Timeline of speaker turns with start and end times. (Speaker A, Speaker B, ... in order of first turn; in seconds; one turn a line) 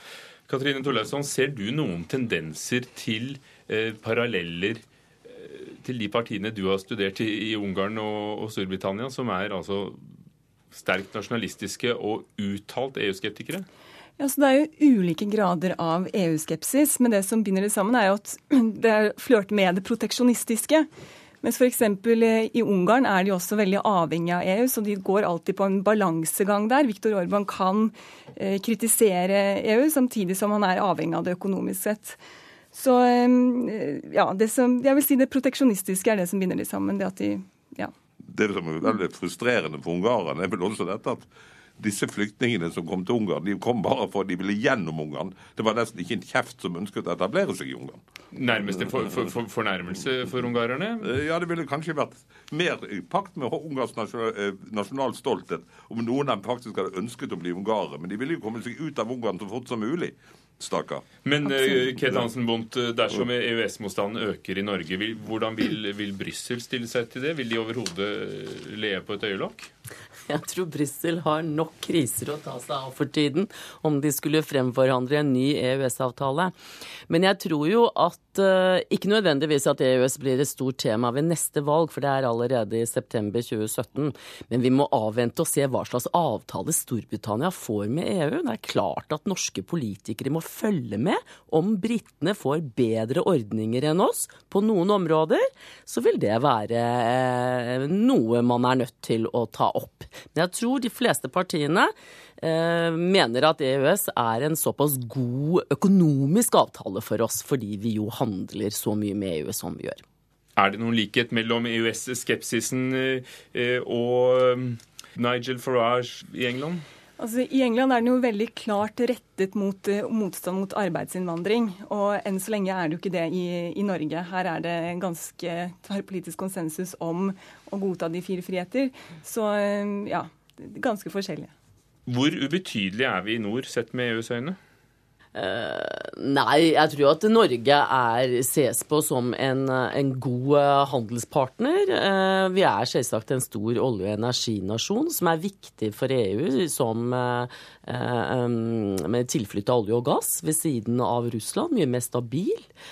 Speaker A: 0.5-10.0
Speaker A: 10.7-13.7
Speaker B: 14.2-20.9
Speaker B: 21.4-32.2
Speaker B: 32.7-37.9
Speaker C: 38.3-41.3
Speaker C: 41.8-48.0
Speaker A: 48.3-51.1
Speaker C: 51.0-61.0
Speaker A: 61.2-69.7
Speaker D: 70.3-76.5
Speaker D: 77.1-110.0
Speaker A: 110.6-116.8
Speaker B: 117.2-131.5
Speaker A: 132.1-134.6
Speaker D: 135.3-152.7